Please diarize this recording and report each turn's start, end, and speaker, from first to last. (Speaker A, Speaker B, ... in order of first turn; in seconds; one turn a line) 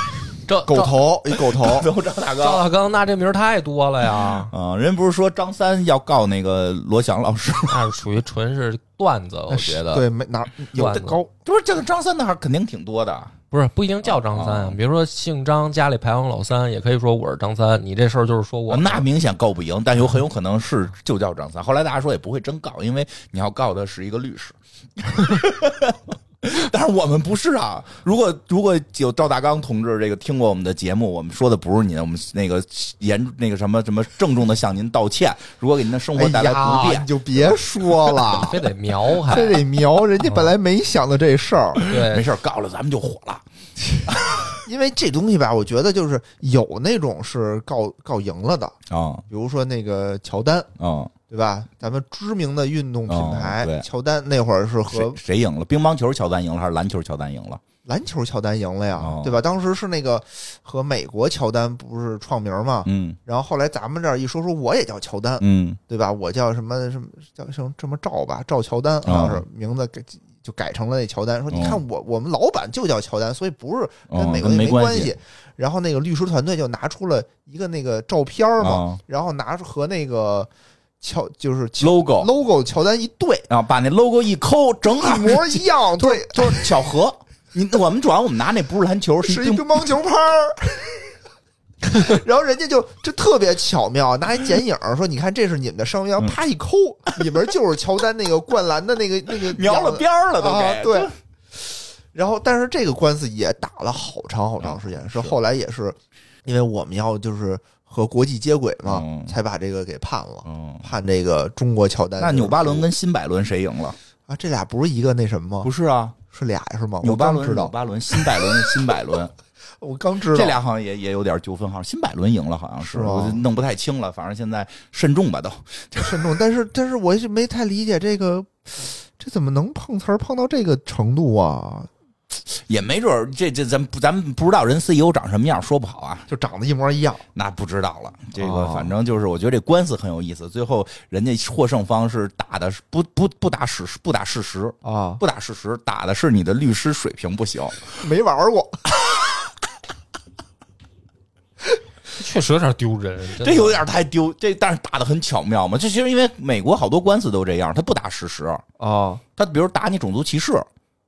Speaker A: 0.5-1.1
Speaker B: 0.7-1.9
Speaker C: 1.3-2.6
Speaker A: 2.4-4.5
Speaker C: 4.2-7.8
Speaker A: 7.7-10.0
Speaker B: 9.5-11.3
Speaker A: 10.7-11.2
Speaker C: 11.4-13.3
Speaker A: 13.5-19.1
Speaker C: 14.0-14.8
Speaker C: 18.7-38.5
Speaker B: 36.1-38.5
Speaker A: 38.3-39.6
Speaker B: 39.1-41.8
Speaker A: 40.2-40.5
Speaker C: 41.8-43.4
Speaker A: 41.8-42.3
Speaker C: 44.0-44.6
Speaker B: 44.5-48.8
Speaker C: 48.9-49.2
Speaker B: 49.3-50.7
Speaker C: 50.8-51.1
Speaker B: 51.3-55.2
Speaker C: 53.0-53.9
Speaker C: 54.9-57.6
Speaker B: 57.9-80.5
Speaker C: 59.0-59.4
Speaker C: 62.8-63.2
Speaker C: 65.4-65.8
Speaker C: 69.0-69.4
Speaker C: 71.5-71.8
Speaker C: 74.1-75.1
Speaker C: 78.6-79.0
Speaker B: 81.0-83.5
Speaker C: 81.8-82.3
Speaker C: 83.5-89.8
Speaker B: 84.9-86.8
Speaker B: 89.2-91.1
Speaker B: 91.8-112.9
Speaker C: 99.3-101.1
Speaker C: 104.6-105.3
Speaker C: 108.8-109.3
Speaker C: 110.4-110.9
Speaker C: 112.2-114.0
Speaker B: 114.3-115.7
Speaker C: 115.6-116.2
Speaker B: 116.3-118.6
Speaker C: 117.0-119.3
Speaker B: 119.8-120.6
Speaker C: 120.3-126.3
Speaker B: 122.8-123.4
Speaker B: 126.0-131.9
Speaker C: 132.5-136.3
Speaker B: 136.3-137.2
Speaker C: 137.3-147.8
Speaker B: 138.4-138.9
Speaker B: 144.8-145.2
Speaker B: 147.9-149.0
Speaker A: 152.2-153.8
Speaker C: 153.4-158.6
Speaker B: 158.8-159.2
Speaker C: 159.4-160.7